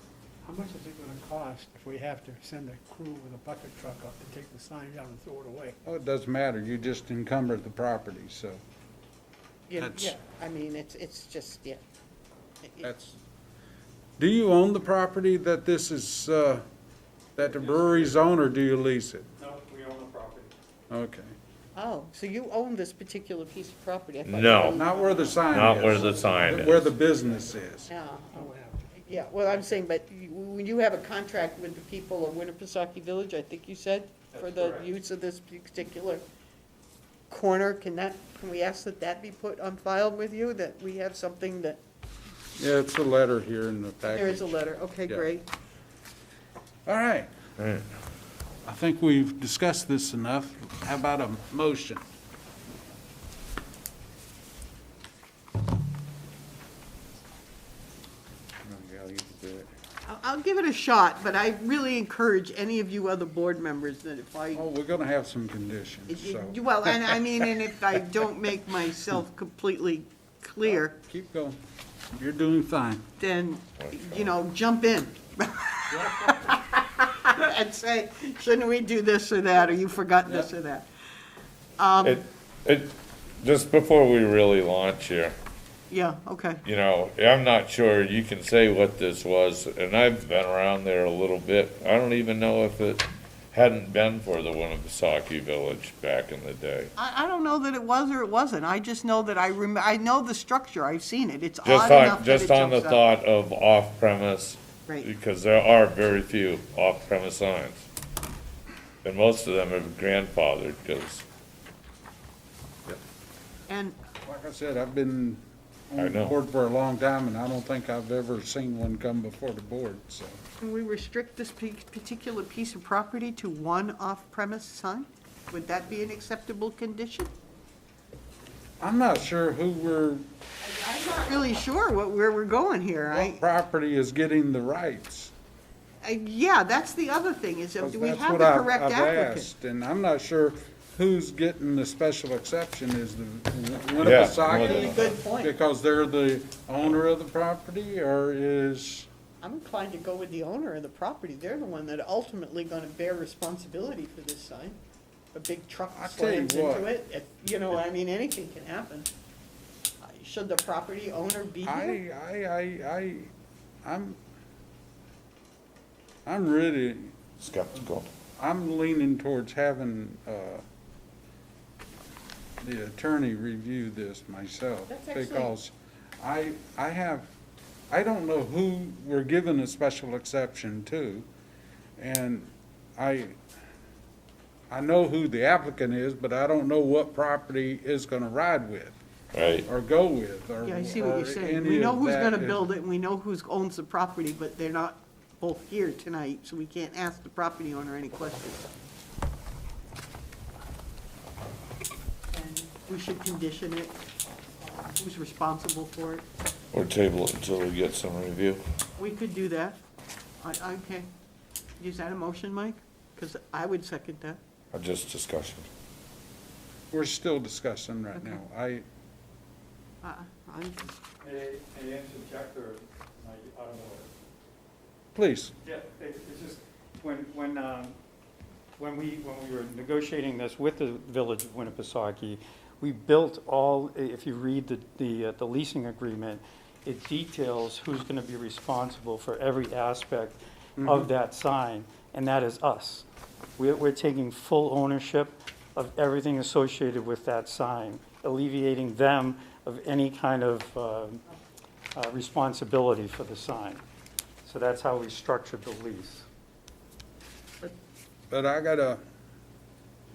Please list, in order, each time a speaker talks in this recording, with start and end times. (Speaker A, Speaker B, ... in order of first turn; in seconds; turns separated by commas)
Speaker A: 0.4-5.8, Speaker B: 5.8-8.6, Speaker C: 9.7-11.8, Speaker B: 9.8-10.2, Speaker C: 12.6-12.9, Speaker B: 12.8-13.2, Speaker B: 14.2-16.6, Speaker B: 17.4-19.3, Speaker D: 17.5-17.9, Speaker D: 19.4-20.5, Speaker B: 20.9-21.3, Speaker C: 21.7-26.4, Speaker E: 24.2-24.8, Speaker B: 24.7-27.9, Speaker E: 25.5-26.9, Speaker C: 27.9-28.5, Speaker A: 28.3-29.0, Speaker C: 29.0-36.2, Speaker D: 34.3-34.8, Speaker C: 37.3-41.8, Speaker B: 42.6-44.5, Speaker C: 44.0-45.5, Speaker B: 46.9-47.3, Speaker E: 47.6-47.9, Speaker B: 48.6-52.0, Speaker E: 58.6-59.7, Speaker C: 60.0-64.6, Speaker B: 64.5-67.0, Speaker C: 66.1-71.0, Speaker B: 70.7-71.6, Speaker B: 72.1-73.1, Speaker C: 73.2-80.9, Speaker E: 73.8-74.3, Speaker B: 75.9-76.3, Speaker C: 81.8-82.2, Speaker E: 82.0-85.3, Speaker C: 85.9-86.6, Speaker E: 86.6-96.9, Speaker C: 97.0-103.0, Speaker E: 101.6-107.8, Speaker E: 109.0-111.2, Speaker C: 113.7-114.0, Speaker B: 114.2-120.4, Speaker E: 116.0-116.3, Speaker C: 120.6-127.3, Speaker B: 128.8-130.2, Speaker C: 130.6-133.4, Speaker B: 133.1-135.3, Speaker C: 136.0-139.5, Speaker B: 137.8-149.1, Speaker E: 144.0-145.0, Speaker C: 144.4-145.5, Speaker C: 149.4-154.8, Speaker C: 155.3-159.1, Speaker B: 155.9-156.9, Speaker C: 160.0-162.0, Speaker B: 161.6-163.3, Speaker B: 163.8-164.2, Speaker B: 166.2-167.2, Speaker E: 167.4-168.1, Speaker B: 168.4-170.6, Speaker B: 172.6-177.3, Speaker C: 174.9-175.5, Speaker B: 177.9-181.3, Speaker B: 182.0-183.4, Speaker B: 184.7-189.0, Speaker E: 189.3-189.7, Speaker B: 189.7-192.6, Speaker C: 190.6-198.7, Speaker C: 202.3-204.0, Speaker C: 204.6-206.2, Speaker E: 206.7-208.6, Speaker C: 209.0-209.8, Speaker C: 210.4-211.1, Speaker C: 211.8-214.4, Speaker E: 214.7-215.7, Speaker B: 216.9-218.8, Speaker C: 220.0-221.0, Speaker D: 221.2-224.1, Speaker B: 225.1-225.5, Speaker D: 225.6-227.9, Speaker D: 228.8-243.0, Speaker B: 240.8-241.1, Speaker D: 243.6-251.2, Speaker D: 251.9-253.8, Speaker D: 254.4-256.2, Speaker B: 258.3-259.0